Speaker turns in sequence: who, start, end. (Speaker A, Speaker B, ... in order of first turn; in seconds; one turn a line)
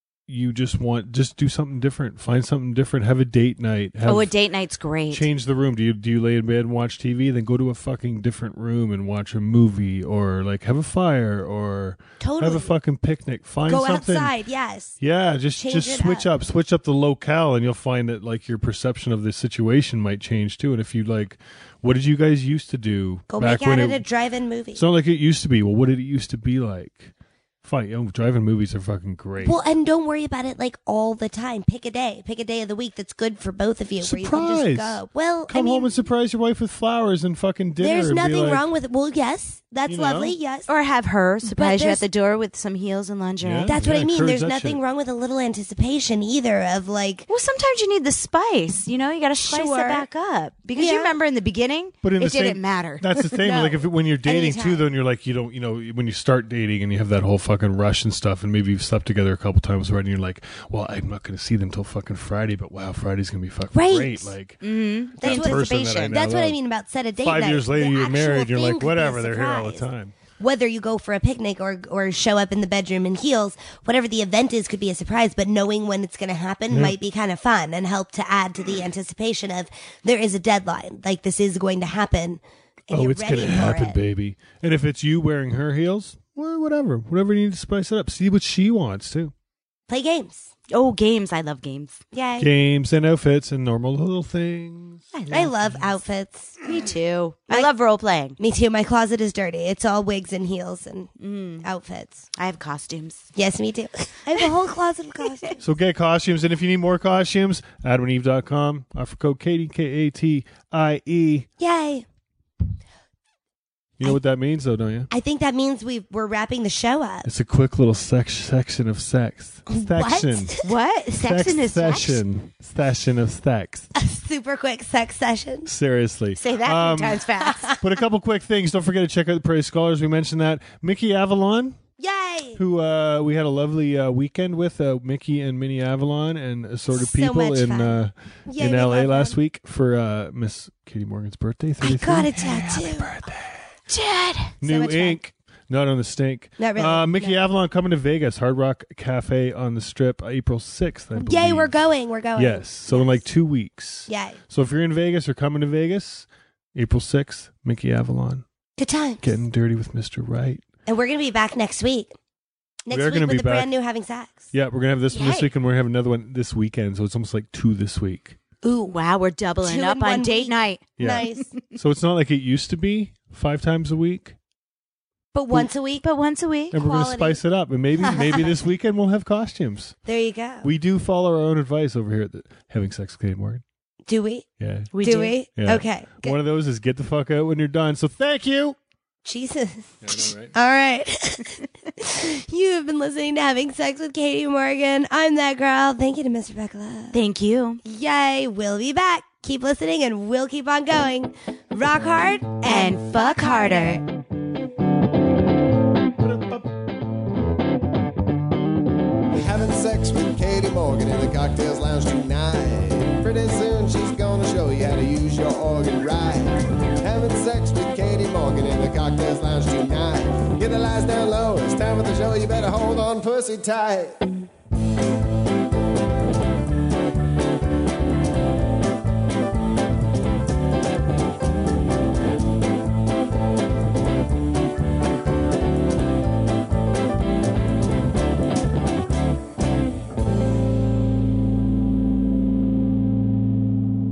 Speaker A: 0.3-4.3
Speaker B: 4.0-5.3
Speaker A: 5.1-14.3
Speaker C: 12.2-12.6
Speaker C: 13.7-14.9
Speaker A: 15.0-24.0
Speaker C: 15.6-16.3
Speaker C: 23.3-24.8
Speaker A: 24.7-29.6
Speaker C: 29.4-36.0
Speaker A: 34.0-38.7
Speaker C: 37.8-40.7
Speaker A: 39.9-40.4
Speaker B: 40.7-43.8
Speaker C: 41.4-42.0
Speaker A: 43.4-44.8
Speaker C: 43.7-47.3
Speaker B: 47.3-53.2
Speaker C: 49.5-50.0
Speaker C: 50.8-51.1
Speaker A: 52.0-64.6
Speaker C: 53.4-54.8
Speaker C: 63.7-64.3
Speaker B: 64.6-66.2
Speaker C: 65.2-69.8
Speaker A: 65.2-66.6
Speaker A: 67.2-70.1
Speaker C: 70.4-84.0
Speaker A: 76.7-77.0
Speaker A: 82.9-89.3
Speaker C: 89.9-90.5
Speaker B: 90.7-92.0
Speaker C: 92.1-92.5
Speaker A: 92.4-95.8
Speaker B: 95.1-95.5
Speaker C: 95.3-96.6
Speaker B: 96.6-98.4
Speaker C: 98.4-102.2
Speaker B: 101.2-101.6
Speaker B: 102.3-103.3
Speaker C: 103.3-105.6
Speaker A: 105.6-111.5
Speaker C: 111.6-112.0
Speaker A: 114.0-115.1
Speaker C: 115.1-117.3
Speaker A: 117.2-120.6
Speaker C: 119.7-120.6
Speaker B: 120.6-122.2
Speaker A: 121.2-123.9
Speaker C: 123.9-125.7
Speaker A: 125.6-127.2
Speaker B: 126.4-127.7
Speaker C: 127.4-127.8
Speaker A: 127.8-131.8
Speaker C: 132.0-132.6
Speaker A: 132.6-143.6
Speaker C: 136.9-137.9
Speaker C: 138.5-139.3
Speaker C: 141.8-143.1
Speaker B: 143.9-144.5
Speaker A: 144.6-151.7
Speaker C: 144.6-145.2
Speaker C: 146.6-147.4
Speaker C: 151.2-153.2
Speaker A: 152.3-158.4
Speaker C: 154.1-154.4
Speaker C: 158.8-159.2
Speaker A: 159.2-160.6
Speaker C: 160.8-162.1
Speaker C: 162.8-164.4
Speaker A: 162.9-163.7
Speaker A: 164.5-168.4
Speaker B: 165.1-165.5
Speaker B: 168.6-171.4
Speaker C: 169.6-171.5
Speaker A: 171.0-174.3
Speaker C: 175.3-176.0
Speaker B: 176.0-176.7
Speaker A: 176.7-179.9
Speaker C: 176.7-177.4
Speaker C: 178.0-178.5
Speaker C: 180.1-180.7
Speaker A: 180.6-183.6
Speaker C: 184.1-184.5
Speaker A: 184.6-184.9
Speaker B: 184.9-185.4
Speaker C: 185.0-186.3
Speaker A: 185.6-188.8
Speaker C: 189.2-197.2
Speaker A: 190.0-190.5
Speaker B: 197.1-197.8
Speaker C: 197.8-204.0
Speaker B: 202.6-204.0
Speaker A: 206.2-206.7
Speaker D: 209.3-224.2